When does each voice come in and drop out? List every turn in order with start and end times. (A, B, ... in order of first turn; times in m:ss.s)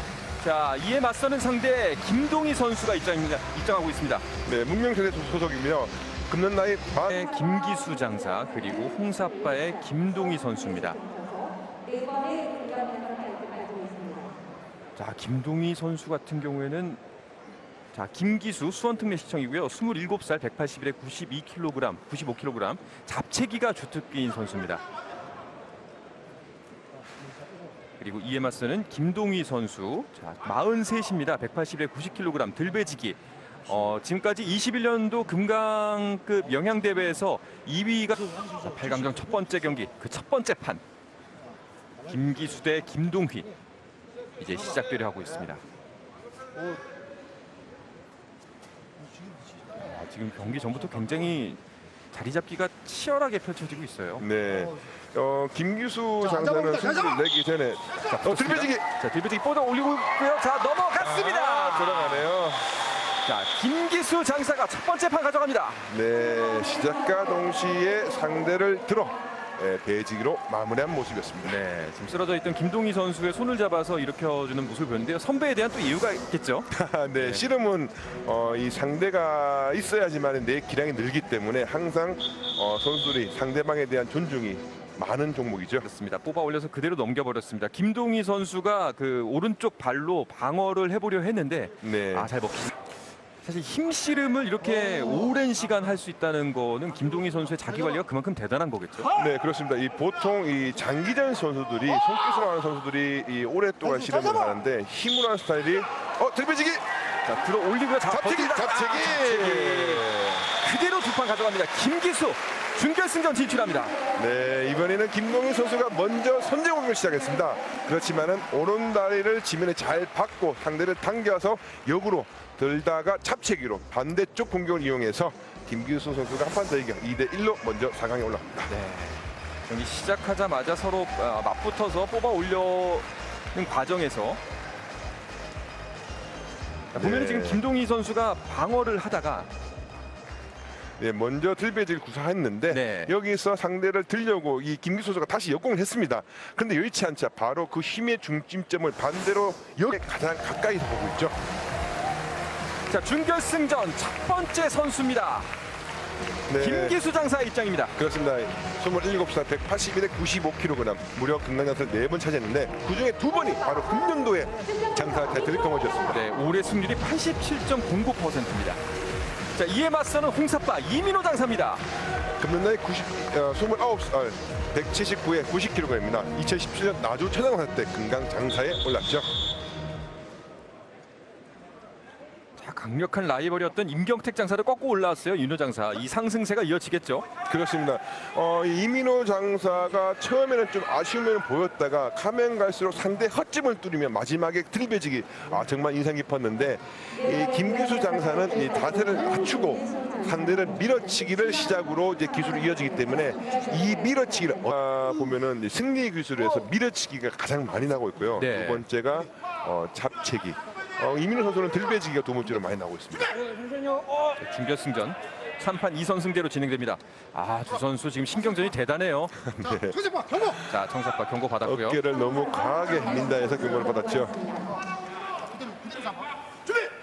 0:00.4-0:04.2 A
0:04.4-0:07.2 B
0:07.1-0:11.0 A
0:15.0-0:17.0 A
0:17.9-0:24.8 A
0:28.0-0:40.8 A
0:42.0-0:43.5 A
0:44.4-0:45.6 A
0:49.8-0:51.6 A
0:52.1-0:54.2 A
0:54.2-0:58.9 B
0:58.1-1:02.3 A
1:01.0-1:02.7 B
1:03.2-1:05.9 A
1:05.9-1:11.6 B
1:11.4-1:17.4 A
1:16.7-1:25.9 B
1:25.8-1:32.7 A
1:31.8-1:32.3 B
1:33.4-1:39.1 A
1:39.1-1:46.8 B
1:47.2-1:53.9 A
1:48.1-1:50.5 B
1:54.2-2:08.7 B
2:08.7-2:14.4 A
2:16.9-2:17.6 B
2:16.9-2:19.5 A
2:21.0-2:31.4 B
2:22.7-2:23.1 A
2:32.9-2:35.5 A
2:36.5-2:37.0 B
2:36.6-2:37.9 A
2:38.0-2:46.2 B
2:46.1-2:48.8 A
2:49.5-2:51.8 A
2:52.4-2:59.3 B
3:02.6-3:07.3 A
3:07.5-3:33.4 B
3:28.4-3:28.8 A
3:34.4-3:39.3 A
3:39.4-3:40.1 B
3:40.6-3:42.0 A
3:41.6-3:44.5 B